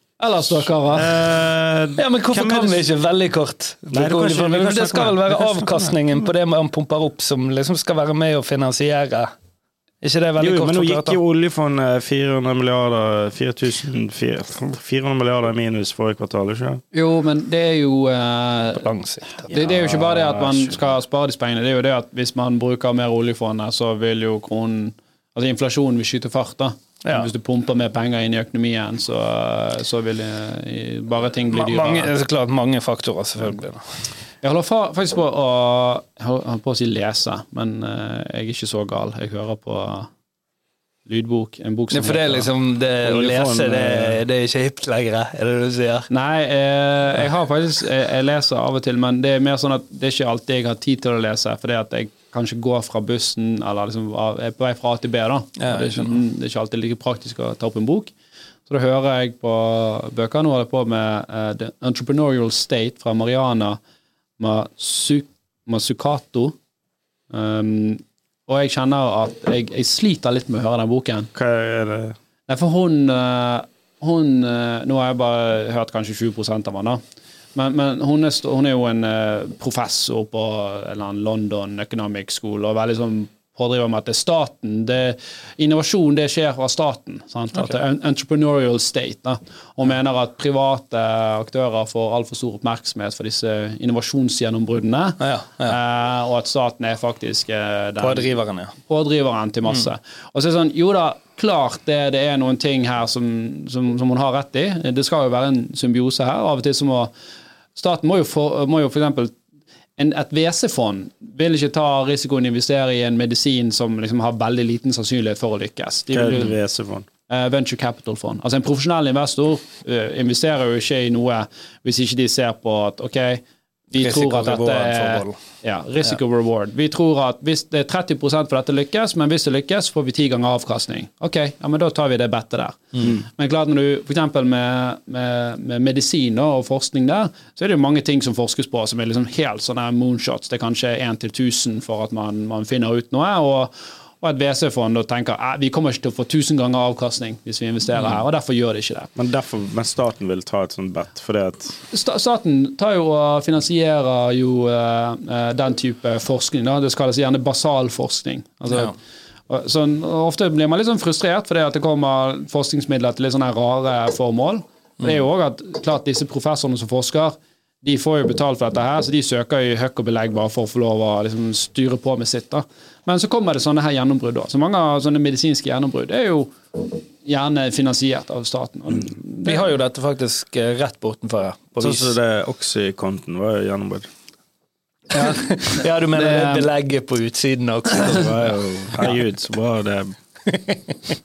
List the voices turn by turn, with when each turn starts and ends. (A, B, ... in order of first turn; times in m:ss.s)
0:00.2-0:01.2 A
0:00.9-0:02.8 B
0:02.0-0:09.3 C
0:03.9-0:06.2 B
0:10.0-0:11.2 C
0:10.4-0:16.8 B
0:16.9-0:18.9 A
0:18.8-0:19.5 C
0:19.5-0:32.1 A
0:19.5-0:20.8 B
0:31.5-0:33.8 C
0:34.4-0:40.1 A
0:41.1-0:42.5 A
0:41.9-0:46.1 C
0:43.0-0:44.2 B
0:46.1-0:58.1 A
0:55.6-0:56.1 C
0:58.7-1:03.8 A
1:04.4-1:06.6 A
1:07.3-1:11.3 A
1:11.3-1:12.2 B
1:12.5-1:17.0 A
1:17.6-1:47.1 A
1:35.2-1:35.8 C
1:38.0-1:38.8 C
1:47.8-1:49.4 A
1:50.0-1:56.5 A
1:56.1-1:57.1 B
1:57.3-2:29.1 A
2:04.0-2:05.4 C
2:29.2-2:31.8 B
2:31.9-2:38.9 A
2:39.5-2:59.7 A
2:59.4-3:02.1 C
3:01.8-3:04.1 B
3:05.1-3:06.7 A
3:05.2-3:09.1 C
3:08.0-3:10.2 B
3:10.5-3:10.8 C